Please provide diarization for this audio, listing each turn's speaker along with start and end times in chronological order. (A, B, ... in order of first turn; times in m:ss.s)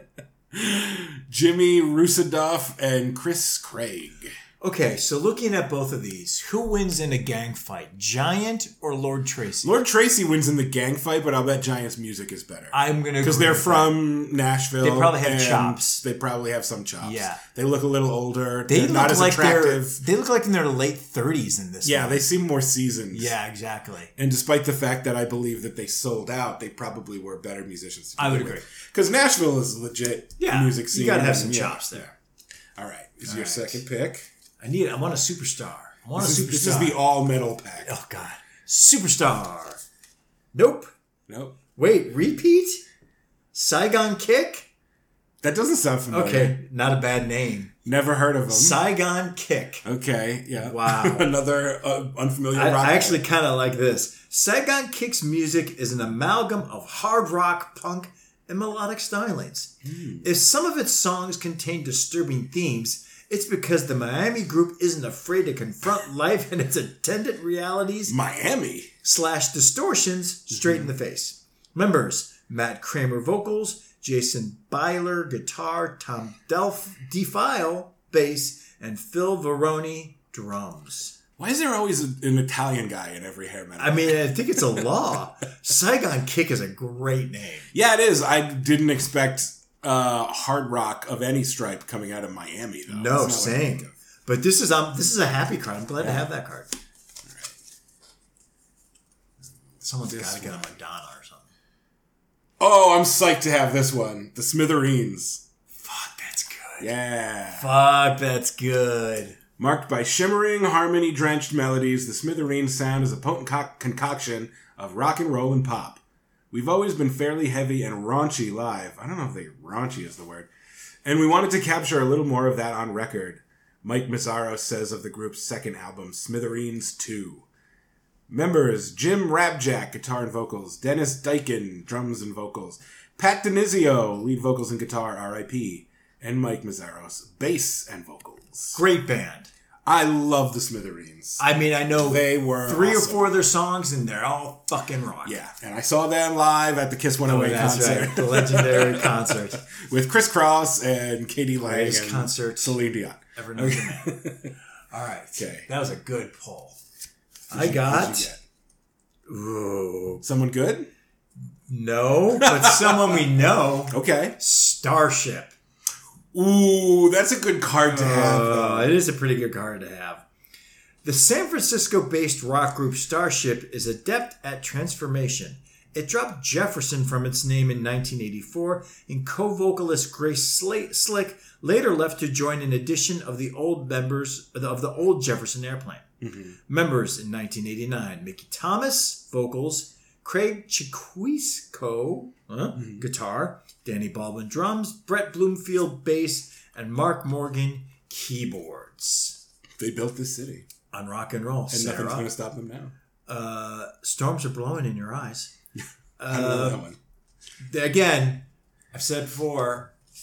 0:00.5-0:04.3 A
0:04.6-0:09.7 B
0:09.6-0:20.0 A
0:12.7-0:14.0 B
0:14.8-0:16.0 B
0:17.0-0:17.4 B
0:18.7-0:22.2 B
0:21.8-0:23.3 A
0:23.1-0:24.1 B
0:24.2-0:32.1 A
0:28.2-0:28.6 B
0:30.4-0:32.0 B
0:32.8-0:34.3 A
0:33.2-0:33.8 B
0:34.6-0:37.0 B
0:36.2-0:37.9 A
0:37.8-0:39.8 B
0:40.5-0:40.9 B
0:41.3-0:41.6 A
0:41.8-0:42.8 B
0:43.5-0:44.7 B
0:45.4-0:46.6 A
0:46.1-0:47.7 B
0:47.8-0:48.8 A
0:48.5-0:49.8 B
0:49.8-0:53.2 A
0:50.5-0:51.3 B
0:52.5-1:08.2 B
0:59.8-1:00.3 A
1:08.1-1:08.9 A
1:09.0-1:21.1 B
1:21.4-1:24.8 A
1:23.8-1:27.7 B
1:27.7-1:33.9 A
1:32.9-1:36.7 B
1:36.0-1:36.3 A
1:37.3-1:37.5 A
1:39.8-1:41.5 B
1:40.0-1:40.7 A
1:42.6-1:45.4 A
1:45.8-1:46.9 B
1:46.8-1:47.7 A
1:47.5-1:49.4 B
1:49.6-2:00.5 A
2:01.0-2:07.5 A
2:08.3-2:18.8 A
2:18.7-2:19.5 B
2:19.8-2:21.4 A
2:21.4-2:25.4 B
2:22.0-2:23.3 A
2:25.2-2:34.5 A
2:27.3-2:29.6 B
2:31.6-2:32.8 B
2:33.3-2:34.3 B
2:34.9-2:36.8 B
2:35.4-2:35.7 A
2:37.5-2:38.3 B
2:37.5-2:38.4 A
2:39.3-2:40.2 B
2:40.2-2:40.9 A
2:41.7-2:45.5 B
2:42.4-2:43.2 A
2:43.9-2:44.4 A
2:46.3-2:49.0 A
2:47.8-2:50.2 B
2:51.0-3:06.1 B
3:06.2-3:06.5 A
3:06.7-3:19.4 B
3:12.8-3:13.1 A
3:19.8-3:20.6 A
3:20.9-3:22.3 B
3:21.7-3:22.9 A
3:23.3-3:25.5 B
3:25.8-3:27.0 A
3:26.2-3:26.8 B
3:27.6-3:29.9 B